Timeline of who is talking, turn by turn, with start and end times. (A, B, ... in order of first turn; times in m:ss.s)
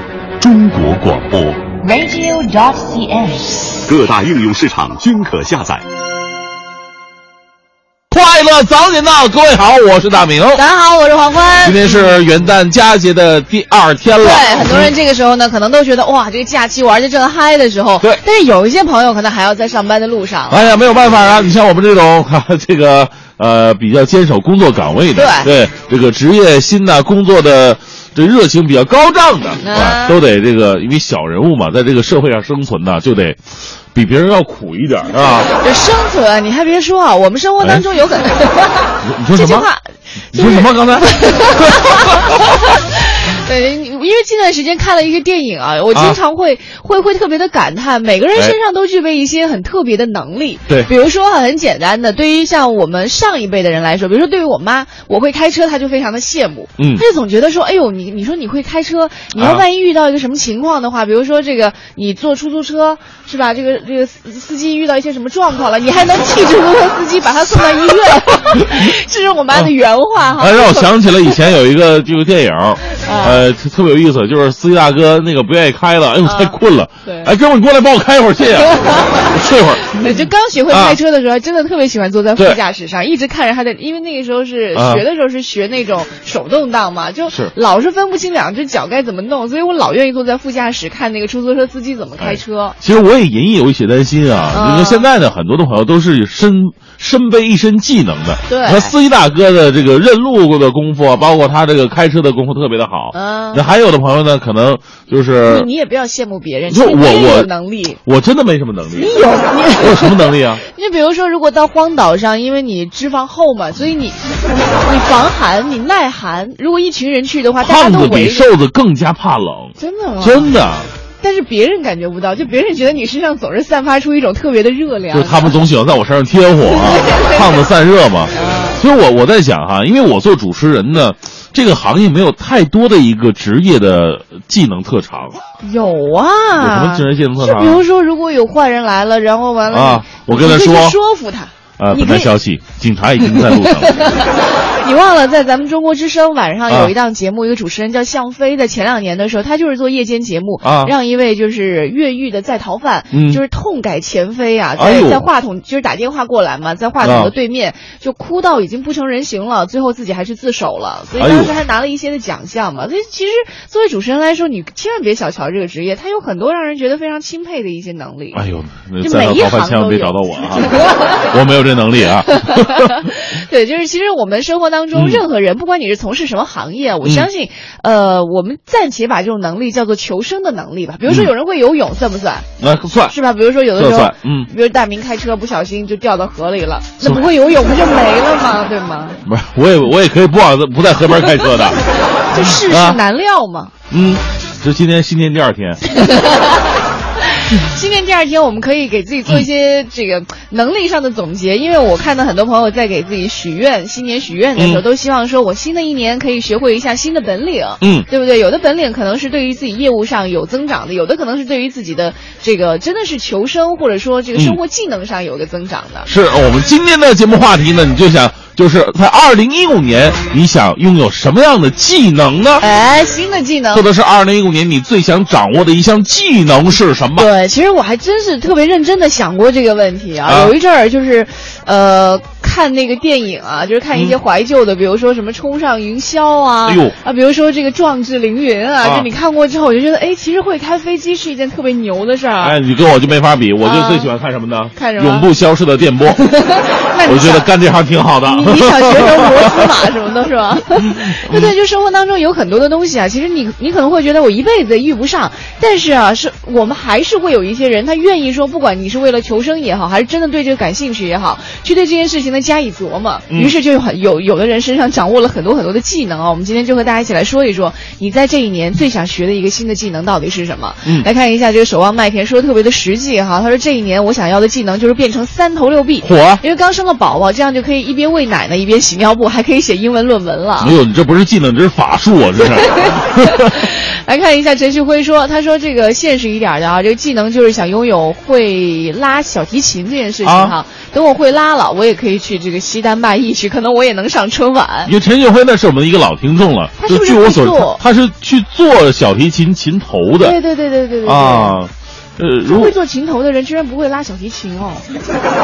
0:00.4-0:05.8 A
0:08.1-0:10.6 B
0:10.5-0:12.0 C
0:11.6-0:15.0 B
0:14.2-0:20.6 C
0:20.5-0:33.4 B
0:25.1-0:25.5 C
0:29.6-0:30.2 C
0:33.9-0:35.5 B
0:35.3-1:11.4 C
0:39.0-0:39.7 B
0:40.3-0:42.4 B
0:45.9-0:46.2 B
0:56.8-0:57.0 B
0:59.3-0:59.6 B
1:08.5-1:08.9 B
1:10.4-1:20.1 B
1:13.0-1:13.4 C
1:16.2-1:17.3 C
1:18.6-1:32.8 C
1:20.7-1:21.0 B
1:24.7-1:25.0 B
1:27.3-1:27.5 B
1:32.2-1:45.7 B
1:34.5-1:35.1 C
1:38.4-1:38.9 C
1:43.1-1:43.6 C
1:45.4-1:48.0 C
1:46.7-1:47.5 B
1:48.0-1:50.6 B
1:49.0-1:58.5 C
1:57.6-2:00.9 B
1:59.8-2:00.5 C
2:01.2-2:05.5 C
2:05.1-2:15.4 B
2:06.7-2:07.4 C
2:08.3-2:08.8 C
2:15.6-2:22.3 C
2:16.6-2:17.8 B
2:19.7-2:21.0 B
2:21.8-2:24.0 B
2:23.3-2:48.4 C
2:26.7-2:26.9 B
2:30.6-2:30.9 B
2:33.1-2:33.4 B
2:34.8-2:35.2 B
2:37.0-2:37.3 B
2:41.2-2:41.6 B
2:48.3-2:53.1 B
2:49.0-2:51.3 C
2:52.3-3:02.5 C
2:54.9-2:55.2 B
2:57.0-2:57.3 B
3:02.6-3:03.2 B
3:03.0-3:09.2 C
3:03.8-3:04.5 B
3:07.0-3:07.2 B
3:09.2-3:11.8 B
3:12.3-3:13.7 C
3:12.3-3:13.0 B
3:13.9-3:15.8 B
3:15.9-3:36.1 C
3:24.6-3:24.8 B
3:27.8-3:28.1 B
3:36.1-3:42.7 B
3:42.6-3:43.9 C
3:43.7-3:47.3 B
3:47.2-4:02.6 C
3:50.2-3:50.6 B
3:56.6-3:57.0 B
3:58.8-3:59.1 B
4:02.4-4:06.5 B
4:03.6-4:04.1 C
4:04.7-4:05.3 C
4:06.2-4:07.5 C
4:07.0-4:09.8 B
4:08.2-4:40.8 C
4:10.8-4:11.5 B
4:23.3-4:23.5 B
4:36.0-4:36.4 B
4:40.6-4:43.6 B
4:42.4-4:54.9 C
4:50.2-4:50.5 B
4:54.8-5:00.4 B
4:56.8-4:57.8 C
5:00.2-5:01.6 C
5:01.0-5:02.7 B
5:02.4-5:04.9 C